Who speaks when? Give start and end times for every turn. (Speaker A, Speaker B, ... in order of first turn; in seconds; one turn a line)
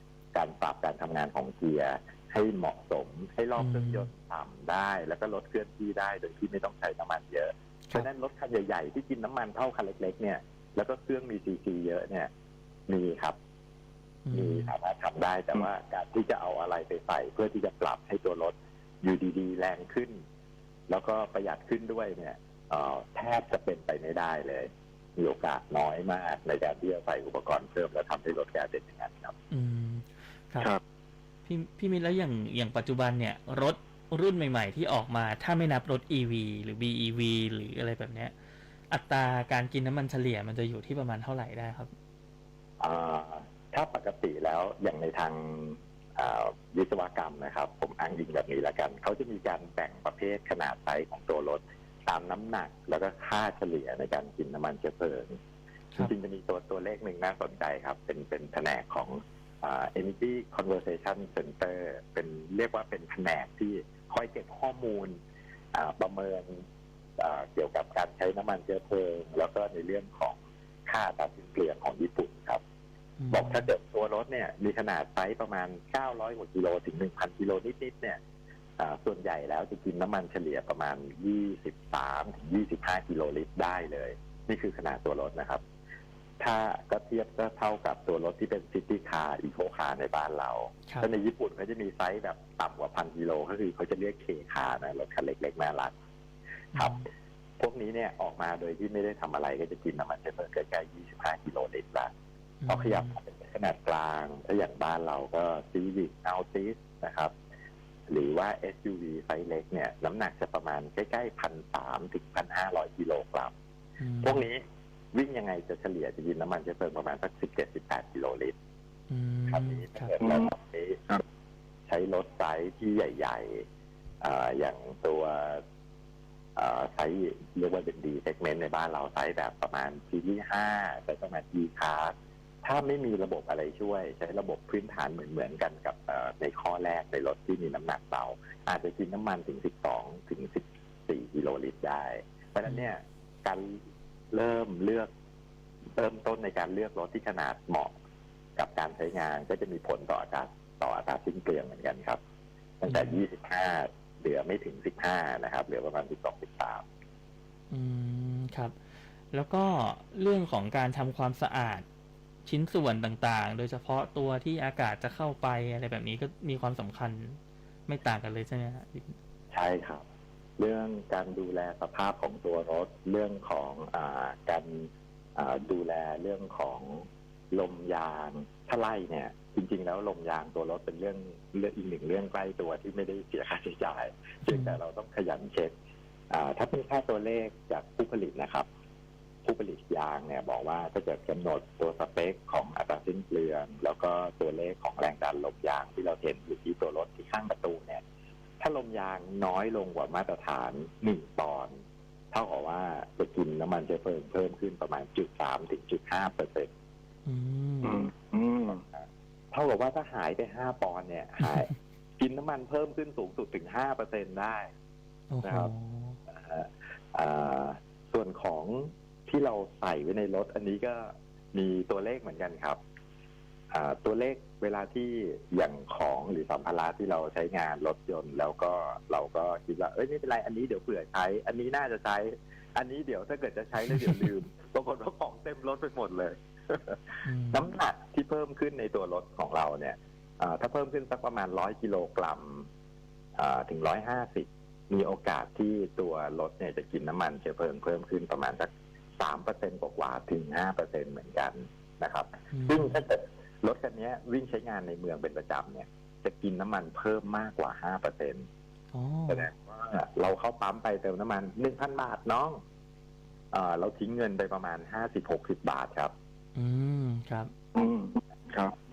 Speaker A: 0.3-12.3
Speaker B: 3.6-4.1
Speaker A: 12.9-13.4
Speaker B: 14.2-14.7
Speaker A: 14.3-20.2
Speaker A: 20.9-29.3
Speaker B: 29.5-30.7
Speaker B: 31.4-38.3
Speaker B: 38.9-41.9
Speaker A: 42.8-55.4
Speaker A: 56.0-65.2
Speaker A: 65.7-66.6
Speaker A: 67.2-72.6
Speaker B: 73.2-73.7
Speaker A: 73.3-78.2
Speaker A: 78.8-85.6
Speaker A: 86.4-95.9
Speaker A: 96.7-97.0
Speaker B: 96.7-97.0
Speaker A: 97.6-102.1
Speaker B: 102.6-103.2
Speaker A: 102.7-107.3
Speaker A: 108.1-113.5
Speaker B: 114.0-114.4
Speaker A: 114.2-114.6
Speaker A: 115.1-118.5
Speaker B: 119.1-120.1
Speaker A: 119.5-121.1
Speaker C: 120.2-120.5
Speaker A: 121.9-123.6
Speaker A: 124.2-125.6
Speaker A: 126.5-132.1
Speaker A: 132.6-143.8
Speaker B: 142.6-142.9
Speaker A: 144.3-145.1
Speaker A: 145.9-147.9
Speaker A: 148.6-152.2
Speaker A: 152.8-156.8
Speaker B: 152.9-153.2
Speaker B: 157.7-161.8
Speaker B: 162.4-169.2
Speaker A: 169.5-170.0
Speaker A: 170.6-185.7
Speaker B: 184.5-184.8
Speaker A: 186.3-188.7
Speaker A: 189.4-198.0
Speaker A: 198.6-201.7
Speaker A: 202.3-206.7
Speaker B: 207.2-208.0
Speaker C: 207.8-208.8
Speaker A: 208.7-214.7
Speaker B: 215.3-216.2
Speaker A: 215.4-215.7
Speaker A: 216.3-222.8
Speaker A: 223.7-242.7
Speaker B: 233.9-234.2
Speaker B: 237.2-237.6
Speaker A: 243.3-258.4
Speaker B: 252.5-253.0
Speaker B: 258.9-259.5
Speaker A: 259.3-262.6
Speaker A: 263.5-266.1
Speaker B: 266.6-267.5
Speaker C: 267.7-268.7